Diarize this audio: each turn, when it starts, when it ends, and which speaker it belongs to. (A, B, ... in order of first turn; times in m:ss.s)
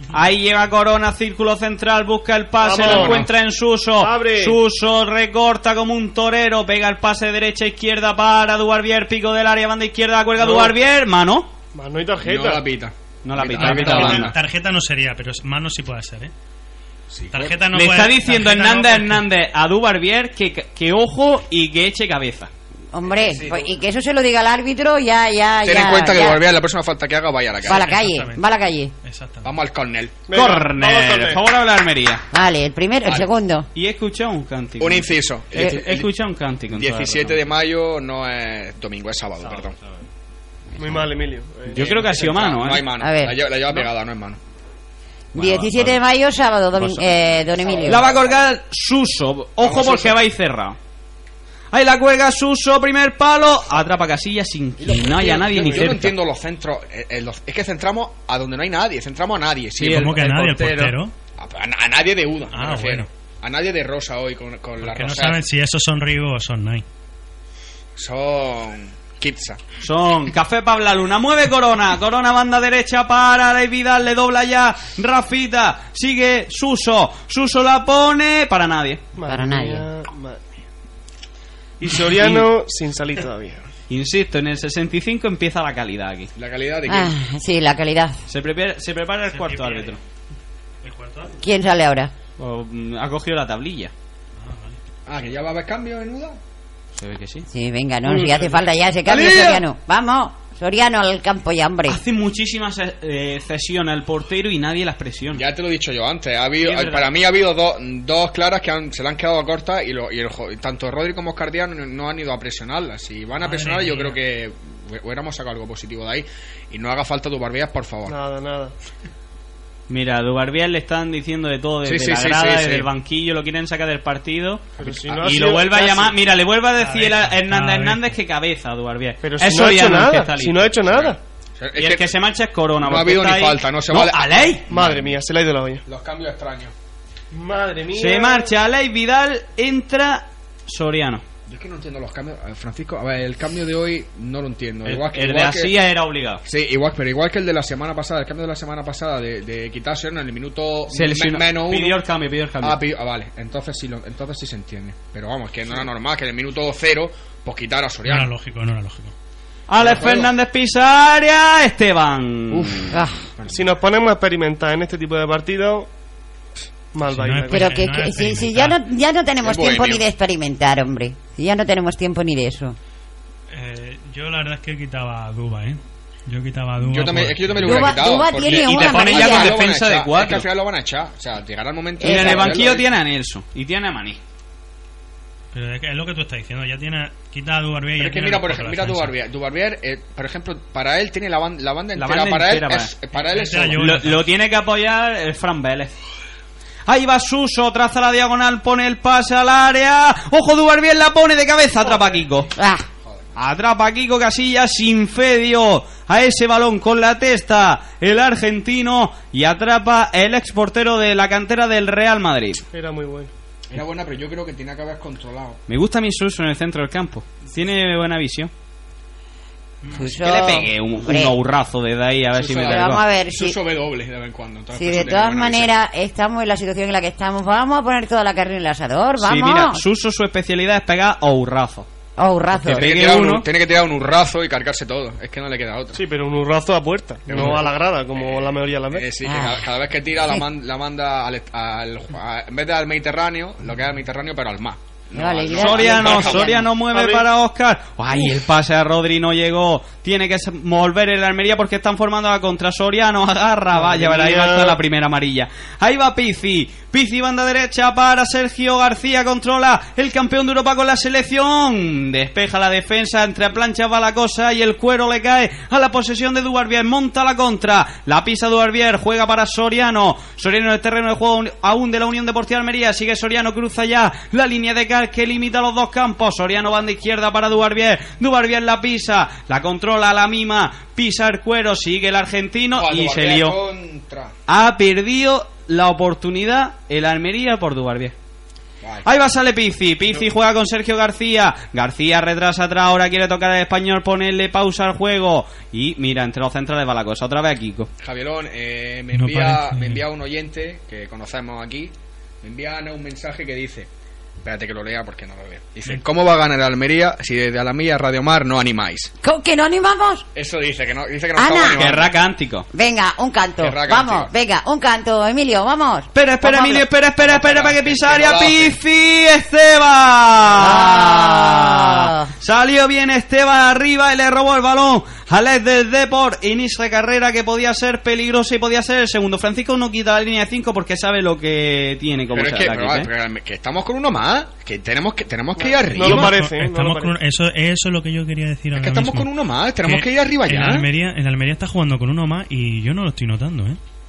0:00.1-0:11.5 A
0:02.6-0:03.3 B
0:02.8-0:03.3 C
0:04.0-0:04.6 B
0:10.4-0:10.7 B
0:11.7-0:12.6 B
0:12.2-0:14.3 C
0:13.2-0:14.3 A
0:13.6-0:16.3 D
0:17.1-0:17.5 C
0:17.3-0:19.2 D
0:17.7-0:22.5 A
0:22.9-0:26.4 E
0:23.0-0:23.7 C
0:25.6-0:27.8 C
0:27.6-0:28.4 D
0:27.6-0:28.9 E
0:29.0-0:29.5 D
0:29.4-0:30.2 C
0:30.3-0:31.4 B
0:30.3-0:32.2 A
0:32.3-0:33.7 E
0:33.7-0:37.4 A
0:34.8-0:36.1 C
0:36.7-0:39.8 C
0:40.8-0:42.3 B
0:41.7-0:44.4 C
0:41.7-0:42.8 A
0:43.0-0:43.4 E
0:45.3-0:48.0 E
0:45.4-0:46.0 A
0:47.6-0:48.4 C
0:47.8-0:50.8 A
0:49.6-0:50.2 C
0:51.7-0:56.2 A
0:54.8-1:00.8 C
0:59.8-1:00.9 A
0:59.8-1:01.1 D
1:01.4-1:05.4 C
1:02.5-1:03.1 D
1:04.8-1:06.8 D
1:08.0-1:09.6 C
1:09.8-1:19.0 A
1:19.2-1:20.4 B
1:19.2-1:19.9 E
1:21.8-1:23.6 B
1:22.1-1:22.5 A
1:23.9-1:26.3 A
1:26.3-1:27.1 C
1:26.8-1:28.2 E
1:28.3-1:30.0 A
1:29.3-1:30.0 D
1:30.8-1:31.4 D
1:31.4-1:32.1 E
1:32.4-1:33.9 A
1:34.4-1:34.8 D
1:35.0-1:36.4 C
1:37.0-1:37.5 A
1:37.5-1:42.0 E
1:39.0-1:39.6 C
1:41.9-1:45.4 A
1:45.3-1:58.2 C
1:46.6-1:47.1 A
1:53.4-1:54.2 D
1:58.1-1:58.7 B
1:59.9-2:04.6 A
2:01.8-2:02.9 C
2:04.8-2:05.3 C
2:04.8-2:06.2 B
2:05.2-2:11.1 A
2:06.8-2:08.1 D
2:09.2-2:11.2 B
2:10.9-2:12.1 C
2:11.8-2:14.6 A
2:12.8-2:15.2 C
2:14.7-2:15.8 B
2:15.8-2:16.7 C
2:17.3-2:18.5 B
2:17.9-2:21.2 A
2:21.5-2:25.7 C
2:24.8-2:26.4 A
2:26.4-2:32.0 C
2:30.9-2:32.8 A
2:32.6-2:38.3 C
2:38.0-2:39.1 D
2:39.7-2:42.9 A
2:39.8-2:40.3 C
2:42.9-2:43.2 E
2:43.4-2:43.7 C
2:43.5-2:45.9 B
2:46.9-2:47.8 B
2:47.0-2:48.8 D
2:47.5-2:52.8 E
2:49.4-2:50.0 C
2:53.5-2:57.9 D
2:56.8-3:02.9 C
2:57.6-2:59.6 E
2:58.4-3:00.5 A
3:02.0-3:02.6 E
3:02.0-3:04.2 A
3:05.5-3:09.1 D
3:08.0-3:13.8 C
3:11.9-3:12.9 A
3:13.1-3:14.3 D
3:13.7-3:15.9 A
3:16.9-3:22.5 A
3:22.6-3:22.8 E
3:23.4-3:32.6 A
3:32.7-3:33.3 B
3:33.7-3:35.6 C
3:35.7-3:38.5 A
3:39.8-3:40.1 D
3:39.9-3:41.4 E
3:40.1-3:43.0 A
3:42.3-3:45.7 C
3:42.6-3:43.6 E
3:44.7-3:49.8 E
3:49.2-3:51.9 A
3:52.2-3:52.9 E
3:52.6-3:53.5 A
3:52.6-3:56.0 C
3:55.9-3:59.1 B
3:57.3-4:06.7 C
3:59.2-4:00.4 E
4:05.1-4:06.7 E
4:05.6-4:43.6 A
4:06.9-4:07.2 B
4:13.7-4:14.8 B
4:42.7-4:44.3 C
4:44.5-4:48.1 A
4:49.0-4:57.9 A
4:58.0-5:03.9 C
4:59.1-5:00.0 D
5:04.4-5:09.1 C
5:09.2-5:10.2 E
5:10.3-5:12.1 C
5:11.3-5:11.8 E
5:11.7-5:12.7 A
5:12.7-5:16.8 E
5:13.6-5:14.3 C
5:16.1-5:33.1 A
5:17.2-5:18.8 C
5:20.6-5:22.3 E
5:32.3-5:36.4 C
5:35.6-5:37.1 B
5:36.0-5:39.3 D
5:38.8-5:40.8 C
5:39.8-5:43.8 D